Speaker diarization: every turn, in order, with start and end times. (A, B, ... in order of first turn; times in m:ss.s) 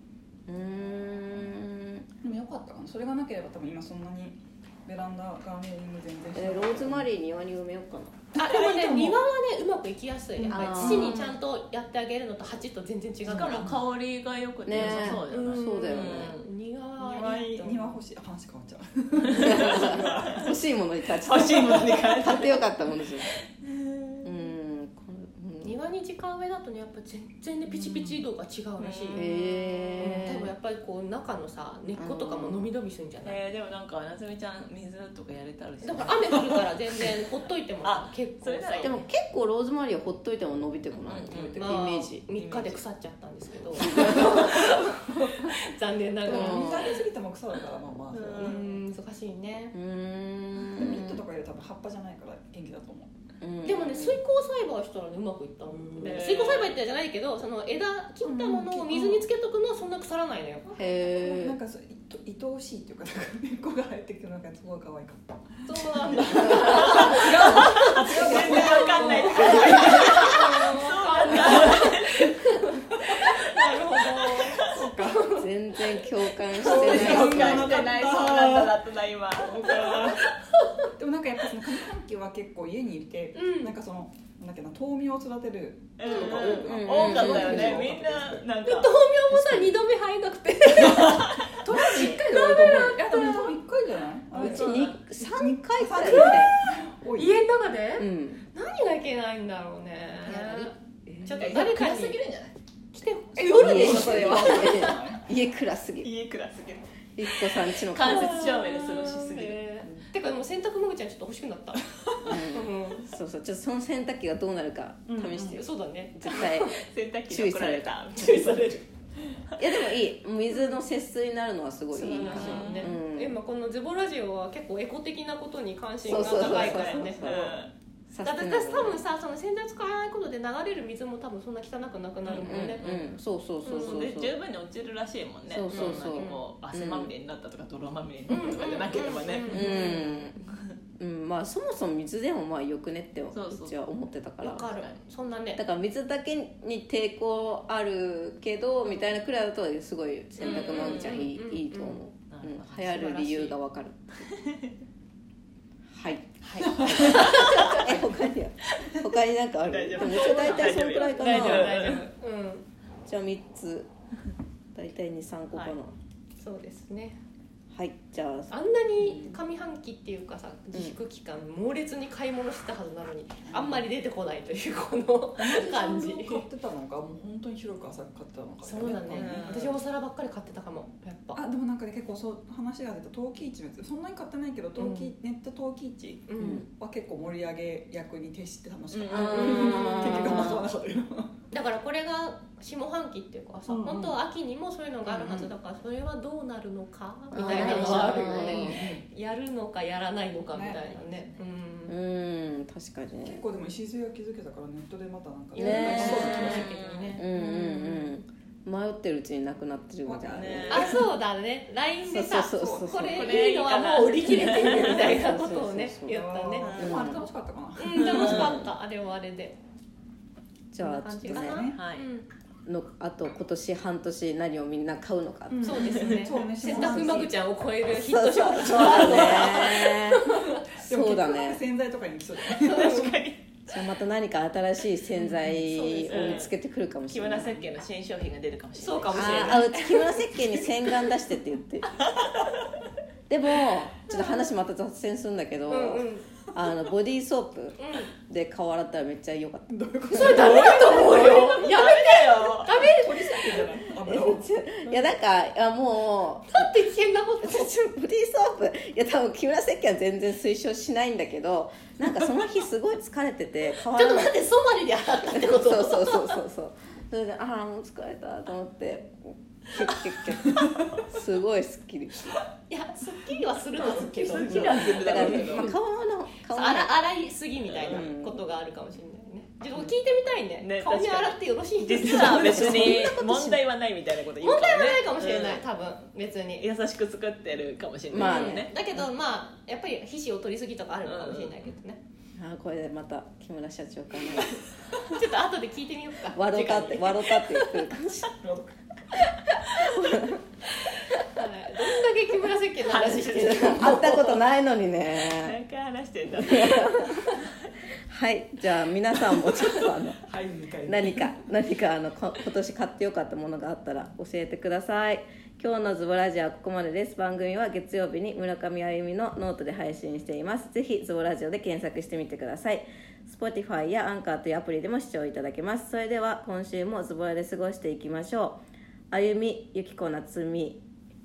0:00.5-0:02.1 A
0:02.2-0:07.1 B
0:06.4-0:08.2 A
0:08.4-0:09.2 B
0:08.4-0:13.7 C
0:10.4-0:11.1 B
0:10.5-0:11.3 A
0:10.8-0:11.4 D
0:13.2-0:16.5 D
0:13.3-0:13.8 B
0:14.6-0:16.3 A
0:14.8-0:18.0 C
0:17.0-0:20.5 B
0:19.4-0:20.4 D
0:19.4-0:23.3 A
0:21.2-0:24.3 D
0:24.2-0:25.8 A
0:25.6-0:29.3 C
0:27.7-0:28.3 B
0:28.8-0:30.2 D
0:29.2-0:30.5 A
0:30.0-0:33.4 C
0:32.0-0:32.7 A
0:33.2-0:37.1 D
0:35.8-0:39.0 C
0:37.8-0:39.1 D
0:38.8-0:42.2 A
0:41.1-0:41.7 D
0:41.6-0:46.9 C
0:42.3-0:42.8 D
0:46.2-0:48.8 B
0:46.3-0:47.0 A
0:48.1-0:48.6 D
0:48.3-0:49.8 C
0:49.7-0:51.2 A
0:50.7-0:53.1 B
0:53.4-0:54.2 A
0:53.6-1:00.7 C
0:55.7-0:56.0 B
0:56.0-0:56.8 D
0:58.2-0:59.2 B
1:00.7-1:01.6 A
1:00.8-1:10.3 B
1:05.7-1:15.5 C
1:06.6-1:12.3 D
1:09.4-1:09.7 A
1:11.3-1:11.7 B
1:13.9-1:14.6 D
1:14.6-1:15.3 B
1:15.4-1:17.8 A
1:16.6-1:18.8 B
1:16.6-1:20.1 D
1:16.9-1:17.6 C
1:19.4-1:20.3 B
1:19.6-1:20.9 C
1:21.0-1:28.5 B
1:23.4-1:23.8 C
1:26.0-1:29.0 D
1:26.0-1:26.5 C
1:26.5-1:27.8 A
1:28.6-1:33.6 C
1:29.3-1:29.8 A
1:30.8-1:31.4 D
1:31.5-1:37.4 B
1:34.4-1:35.0 D
1:34.4-1:36.5 A
1:36.0-1:36.5 C
1:37.2-1:40.7 C
1:38.0-1:38.4 A
1:40.2-1:40.7 D
1:41.3-1:42.2 C
1:41.3-1:42.6 D
1:42.9-1:45.0 C
1:43.4-1:45.3 B
1:43.6-1:46.1 A
1:43.7-1:44.7 D
1:46.0-1:49.6 D
1:47.2-1:48.7 A
1:48.1-1:53.1 C
1:52.2-1:56.8 A
1:55.1-1:55.6 B
1:55.5-1:56.8 C
1:56.7-1:58.8 D
1:57.3-1:58.0 A
1:58.2-1:58.8 C
1:59.6-2:03.4 A
2:00.5-2:00.8 C
2:01.9-2:07.5 C
2:02.1-2:02.9 D
2:06.0-2:07.6 A
2:06.1-2:07.7 D
2:08.1-2:09.0 A
2:08.2-2:12.9 C
2:12.3-2:13.1 D
2:12.3-2:14.3 A
2:13.6-2:14.0 C
2:13.7-2:19.8 D
2:15.5-2:17.1 A
2:15.7-2:16.4 C
2:18.3-2:20.2 C
2:19.5-2:20.5 A
2:21.0-2:24.8 A
2:23.3-2:23.8 D
2:24.4-2:25.6 C
2:25.6-2:34.3 A
2:30.4-2:31.2 D
2:30.4-2:32.0 C
2:32.3-2:33.0 D
2:32.9-2:33.5 C
2:35.9-2:42.0 A
2:36.4-2:38.3 D
2:36.8-2:37.1 B
2:39.6-2:42.1 D
2:40.2-2:42.7 C
2:43.1-2:43.9 A
2:44.7-2:46.0 A
2:46.4-2:47.2 C
2:47.7-2:49.3 A
2:48.5-2:56.4 C
2:50.7-2:51.0 A
2:55.4-2:59.5 B
2:58.6-3:01.4 C
2:59.1-2:59.8 D
3:01.4-3:11.4 B
3:04.8-3:05.1 C
3:06.3-3:06.7 C
3:06.4-3:06.6 A
3:08.9-3:10.5 D
3:09.1-3:10.6 A
3:09.3-3:10.5 C
3:11.5-3:22.0 C
3:13.7-3:14.1 B
3:15.1-3:15.5 A
3:17.3-3:18.8 A
3:17.3-3:18.8 D
3:18.7-3:19.0 B
3:20.5-3:20.8 B
3:20.9-3:21.4 D
3:21.9-3:23.4 A
3:23.2-3:26.7 B
3:25.6-3:26.6 A
3:25.6-3:27.9 C
3:26.0-3:27.2 D
3:27.2-3:30.7 A
3:30.0-3:31.0 B
3:30.3-3:31.0 D
3:30.7-3:37.2 C
3:32.1-3:33.3 A
3:33.1-3:35.1 D
3:34.7-3:36.2 A
3:36.1-3:38.5 B
3:36.6-3:37.2 D
3:36.8-3:37.2 A
3:37.8-3:39.6 C
3:38.0-3:38.6 D
3:38.0-3:38.7 A
3:40.7-3:41.6 A
3:40.8-3:42.3 C
3:41.2-3:41.8 B
3:41.7-3:42.1 D
3:42.7-3:45.9 A
3:45.5-3:47.3 B
3:45.6-3:50.5 C
3:46.6-3:47.3 A
3:47.9-3:51.6 A
3:48.7-3:49.6 D
3:50.8-3:53.3 B
3:52.6-3:53.4 D
3:52.7-3:53.0 C
3:53.7-3:57.7 A
3:55.5-3:56.5 C
3:56.1-3:56.5 D
3:57.1-3:59.7 D
3:58.8-4:00.4 C
3:59.1-4:01.9 A
4:02.0-4:02.7 D
4:03.3-4:10.6 A
4:04.1-4:04.4 C
4:05.7-4:06.3 C
4:07.8-4:08.1 C
4:09.7-4:11.2 B
4:10.1-4:13.6 C
4:10.4-4:12.7 D
4:12.7-4:14.5 B
4:14.0-4:16.7 A
4:16.5-4:17.8 C
4:17.4-4:24.4 A
4:23.9-4:26.4 C
4:25.3-4:32.2 A
4:32.7-4:35.7 C
4:33.8-4:35.7 D
4:34.5-4:37.0 A
4:36.5-4:43.1 C
4:37.7-4:38.0 D
4:37.9-4:38.4 A
4:40.6-4:45.6 D
4:42.1-4:43.3 A
4:42.4-4:43.6 B
4:44.4-4:46.7 C
4:46.6-4:48.7 D
4:48.1-4:48.7 A
4:48.2-4:52.0 C
4:51.0-4:51.6 D
4:52.4-4:54.6 A
4:55.1-4:57.4 C
4:56.3-4:58.3 A
4:58.4-4:58.7 B
4:59.7-5:00.4 A
5:01.3-5:04.3 C
5:02.8-5:04.3 D
5:03.3-5:05.6 A
5:05.3-5:07.7 D
5:06.4-5:07.4 A
5:08.1-5:10.2 A
5:09.3-5:11.4 B
5:10.8-5:28.6 A
5:29.1-5:30.8 A